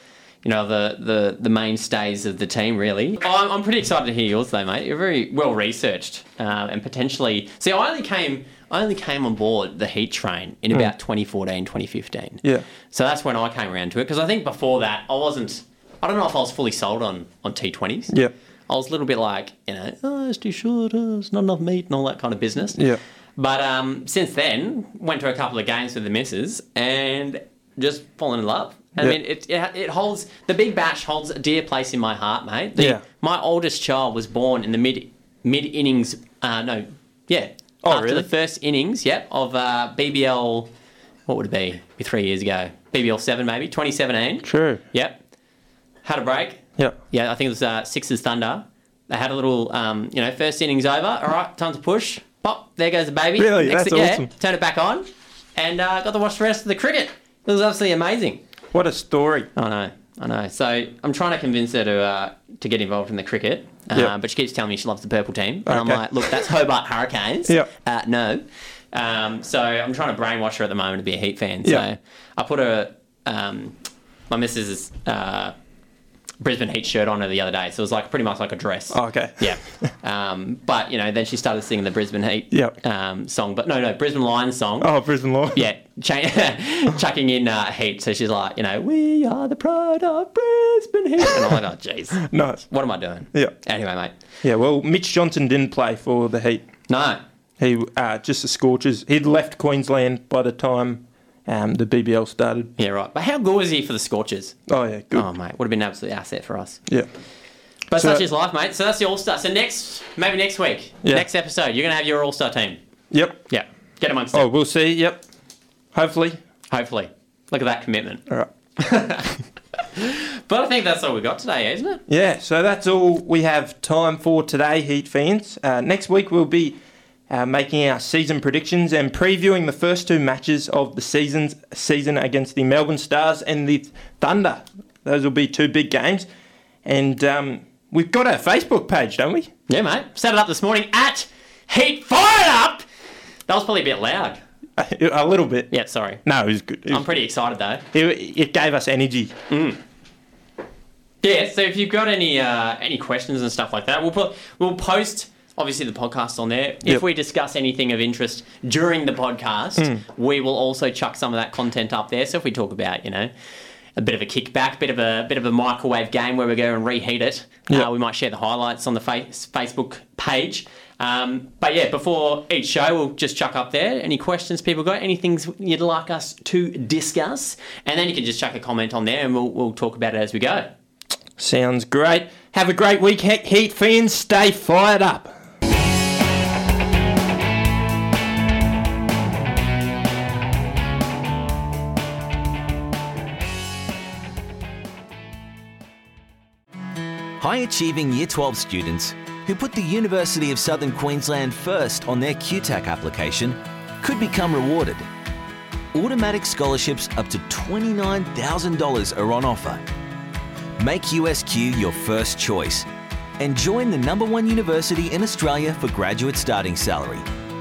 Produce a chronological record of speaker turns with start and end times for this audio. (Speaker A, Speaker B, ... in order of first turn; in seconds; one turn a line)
Speaker A: 0.4-18.1
Speaker A: 18.7-40.7
Speaker B: 22.7-23.0
Speaker B: 32.8-33.0
Speaker B: 37.8-38.3
Speaker A: 41.3-45.2
Speaker B: 44.4-44.8
Speaker A: 46.0-58.4
Speaker B: 53.4-54.3
Speaker B: 58.7-59.5
Speaker A: 59.5-75.5
Speaker B: 65.7-66.0
Speaker A: 76.4-84.9
Speaker B: 78.9-79.9
Speaker B: 82.5-82.8
Speaker B: 84.8-85.7
Speaker A: 85.5-94.1
Speaker B: 92.2-92.7
Speaker B: 94.4-96.7
Speaker A: 96.9-97.2
Speaker B: 97.6-102.7
Speaker A: 102.8-104.5
Speaker B: 104.7-105.3
Speaker A: 105.1-106.8
Speaker A: 107.9-112.8
Speaker B: 108.0-108.2
Speaker B: 113.1-113.4
Speaker A: 113.5-114.5
Speaker B: 114.3-115.2
Speaker B: 115.9-116.4
Speaker A: 116.7-122.0
Speaker B: 122.1-126.8
Speaker B: 127.3-136.3
Speaker B: 136.8-139.5
Speaker A: 139.7-142.8
Speaker A: 143.5-144.4
Speaker B: 144.8-145.7
Speaker A: 145.7-146.2
Speaker B: 146.2-147.1
Speaker A: 146.9-147.8
Speaker B: 147.9-149.3
Speaker A: 149.5-149.8
Speaker A: 151.2-163.3
Speaker B: 159.8-160.0
Speaker A: 163.9-180.7
Speaker B: 181.4-185.4
Speaker C: 197.4-205.1
Speaker C: 205.9-209.8
Speaker C: 210.8-212.9
Speaker C: 213.4-217.2